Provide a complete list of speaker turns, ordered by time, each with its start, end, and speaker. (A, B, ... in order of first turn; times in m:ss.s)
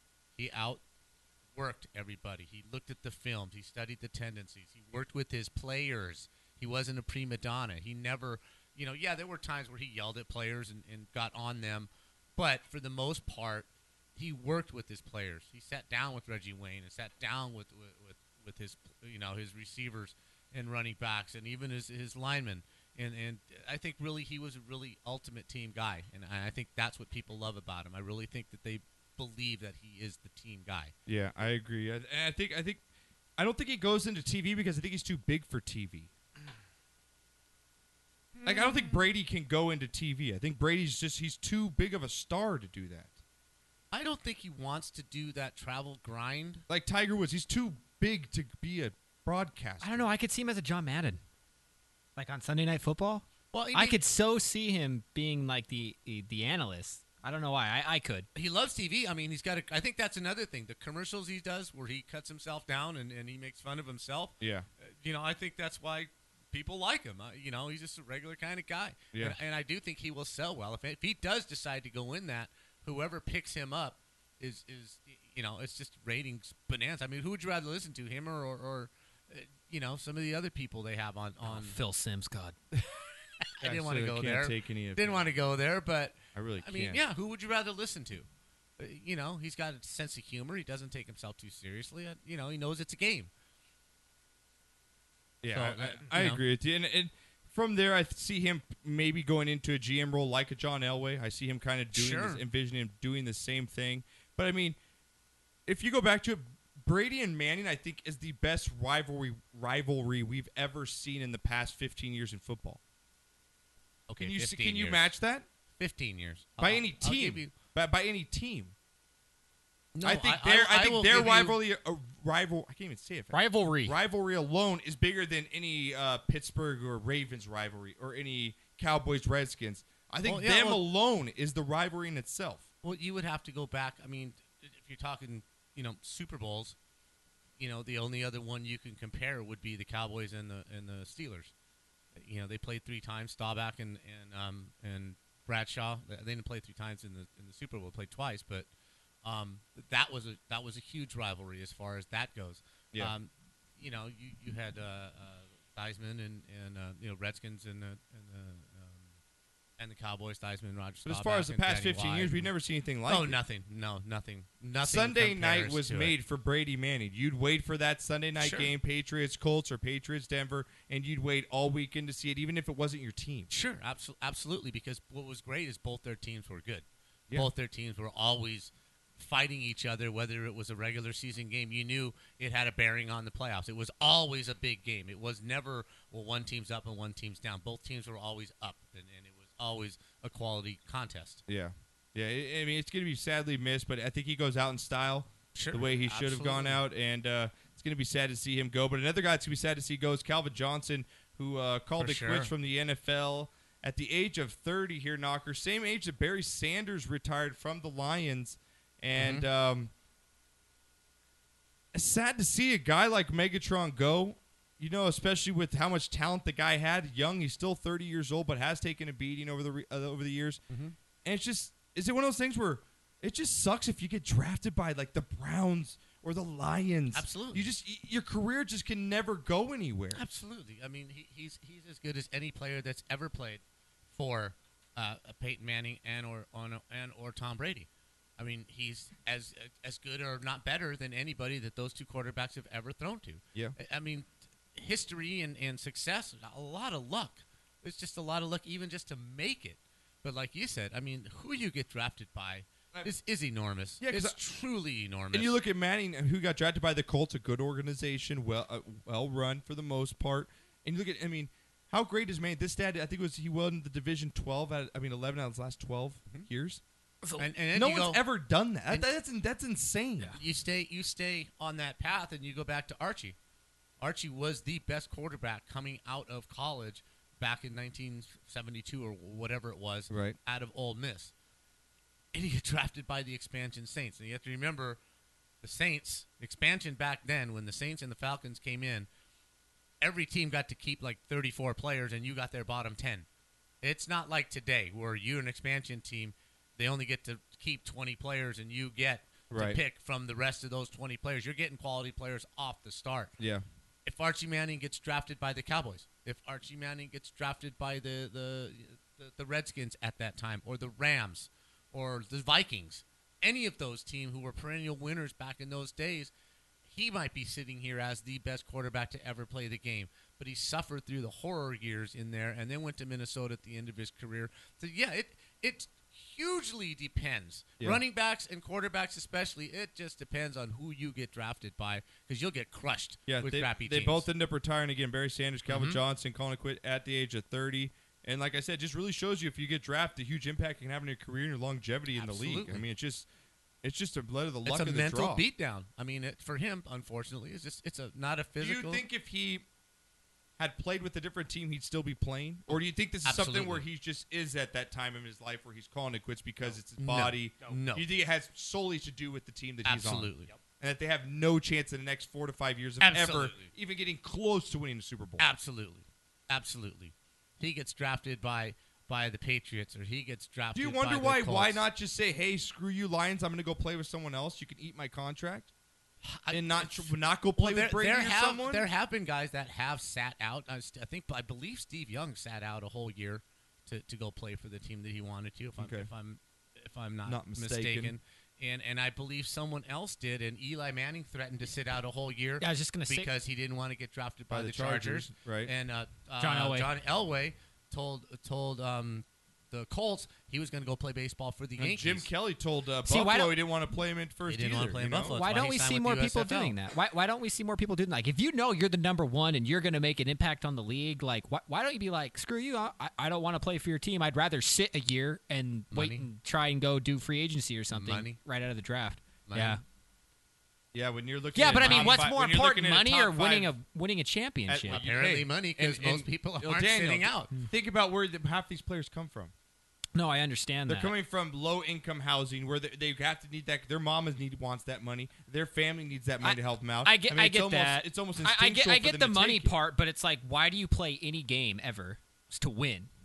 0:00.4-0:00.8 A
0:01.5-0:30.9 A
0:31.1-0:32.8 B
0:33.4-0:36.1 B
0:38.3-0:39.0 A
0:38.4-0:43.2 B
0:43.9-0:46.6 A
0:46.7-0:50.1 B
0:49.8-0:51.2 C
0:52.2-0:58.3 C
0:53.5-0:54.0 A
0:58.3-1:21.8 A
1:04.4-1:04.6 B
1:21.4-1:22.6 C
1:23.6-1:28.3 A
1:23.6-1:25.3 B
1:26.3-1:27.0 B
1:28.8-1:33.3 A
1:35.4-1:44.8 B
1:35.5-1:36.4 A
1:41.9-1:42.4 A
1:45.6-1:52.8 B
1:54.1-1:55.1 A
1:54.2-1:55.4 B
1:55.8-1:57.5 A
1:56.6-1:58.7 B
1:59.9-2:01.6 A
2:00.0-2:12.7 B
2:03.3-2:04.0 C
2:10.2-2:10.8 A
2:12.8-2:16.8 A
2:17.6-2:21.5 A
2:22.1-2:28.7 A
2:29.2-2:39.2 A
2:39.8-2:42.5 A
2:41.0-2:43.4 B
2:43.0-2:46.1 A
2:44.8-2:53.5 B
2:48.4-2:48.7 A
2:53.5-3:11.4 A
3:11.5-3:29.9 B
3:15.5-3:16.8 A
3:22.0-3:22.5 A
3:29.2-3:29.5 A
3:31.9-3:40.6 B
3:40.7-3:40.9 A
3:41.2-3:50.2 B
3:47.1-3:47.7 A
3:50.1-4:15.5 A
4:14.0-4:14.4 B
4:15.3-4:26.8 B
4:27.4-4:28.2 A
4:27.7-4:30.4 B
4:30.3-4:33.4 A
4:34.0-4:41.3 A
4:40.1-4:40.4 B
4:42.3-4:45.0 A
4:45.6-4:49.1 A
4:50.0-4:53.3 A
4:53.8-5:03.3 A
4:59.5-4:59.8 B
5:03.4-5:03.6 B
5:04.0-5:16.3 A
5:16.8-5:34.3 A
5:33.3-5:43.3 B
5:35.7-5:36.0 A
5:42.1-5:42.8 A
5:43.8-5:45.4 B
5:44.6-5:49.0 A
5:48.6-5:49.6 B
5:50.6-6:05.5 B
5:52.7-5:53.8 A
5:57.0-5:58.0 A
5:59.8-6:00.5 A
6:03.0-6:03.7 A
6:05.4-6:11.8 A
6:10.7-6:15.7 B
6:16.2-6:42.3 A
6:16.5-6:18.8 B
6:25.8-6:26.1 B
6:27.2-6:28.2 B
6:32.6-6:33.3 C
6:34.5-6:35.7 B
6:36.4-6:36.9 C
6:41.8-6:45.4 B
6:43.0-6:43.5 C
6:44.4-6:46.7 A
6:45.3-6:59.8 C
6:55.9-6:56.2 A
6:57.9-6:58.4 A
6:59.4-6:59.8 A
7:00.9-7:03.7 B
7:01.5-7:05.0 C
7:01.7-7:02.2 A
7:04.7-7:09.5 B
7:04.9-7:07.5 A
7:10.1-7:11.1 C
7:10.9-7:19.7 B
7:16.4-7:23.1 C